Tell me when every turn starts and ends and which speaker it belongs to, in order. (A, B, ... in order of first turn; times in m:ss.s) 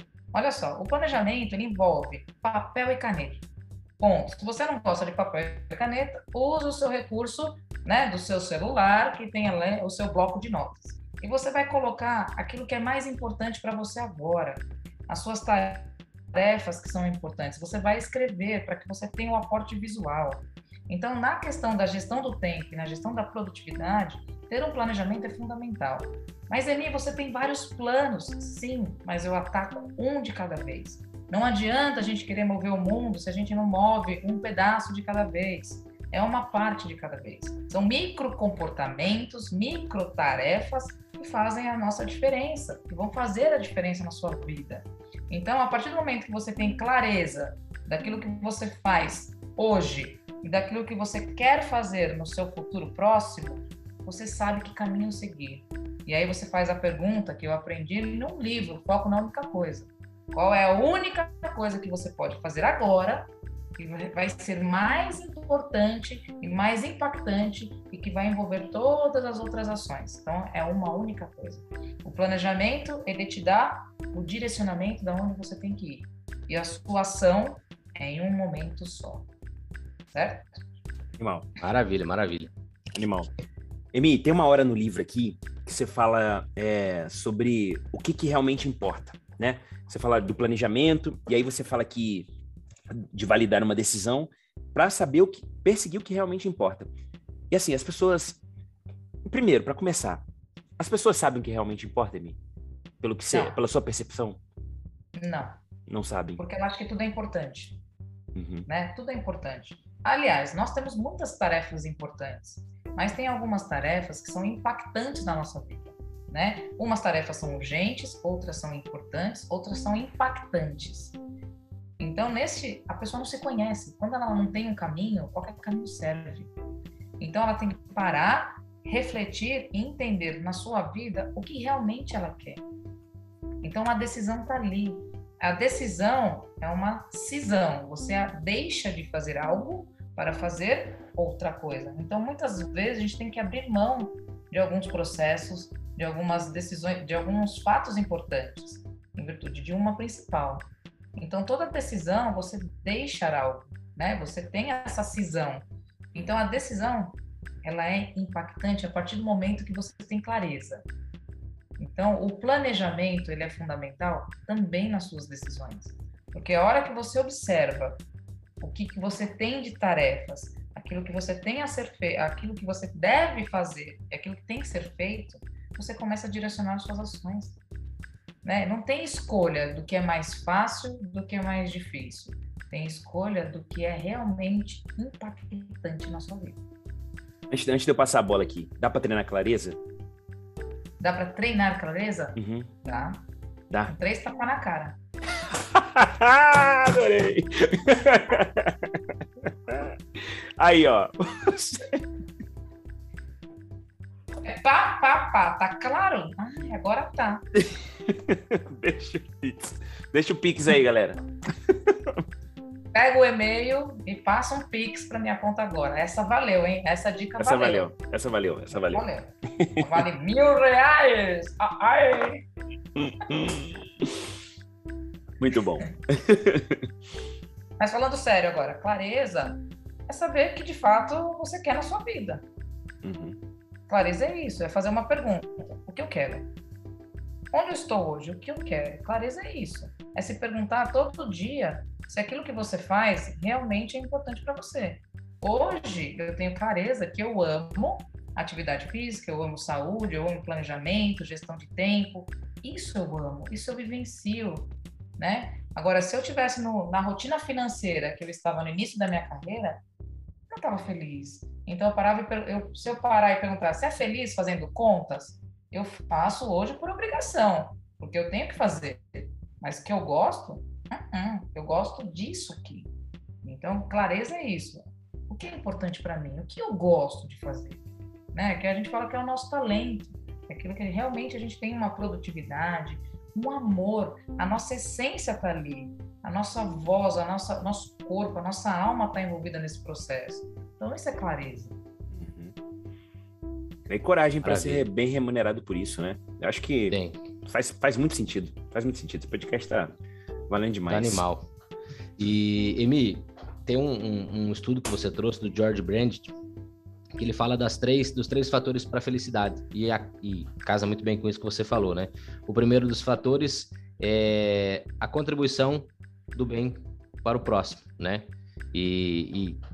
0:00.3-0:03.4 A
0:04.0-1:19.3 A
1:20.1-1:20.6 A
1:21.2-1:21.4 B
1:21.6-1:22.5 C
1:22.9-1:23.3 B
1:23.9-1:32.3 B
1:32.9-1:36.9 B
1:37.5-1:38.4 B
1:39.2-1:40.2 B
1:40.8-1:42.4 B
1:43.0-1:44.4 B
1:43.3-1:43.6 A
1:45.2-1:45.6 A
1:45.9-1:46.4 B
1:46.4-1:47.8 A
1:48.3-1:48.7 B
1:48.7-2:01.1 A
2:02.0-2:06.5 A
2:07.2-2:12.6 A
2:13.6-2:40.8 A
2:41.8-2:48.0 A
2:48.6-2:57.6 A
2:58.4-3:06.6 A
3:07.5-3:09.8 B
3:11.0-3:13.2 A
3:12.4-3:12.7 B
3:13.9-3:15.0 A
3:15.5-3:19.0 B
3:19.7-3:22.0 B
3:24.4-3:27.4 A
3:27.6-3:32.2 B
3:32.9-3:37.9 A
3:37.4-3:39.0 B
3:38.7-3:42.4 A
3:39.6-3:40.0 B
3:43.0-3:44.2 B
3:45.4-3:46.8 B
3:47.8-3:52.4 A
3:53.0-3:53.4 B
3:53.9-3:56.5 A
3:57.5-4:19.8 A
4:20.5-4:32.9 A
4:33.4-4:51.7 A
4:52.1-4:52.5 B
4:53.9-5:00.0 B
4:54.4-4:54.8 C
4:56.9-4:57.2 C
5:00.5-5:01.2 B
5:00.9-5:01.5 C
5:02.2-5:06.3 C
5:07.1-5:19.6 C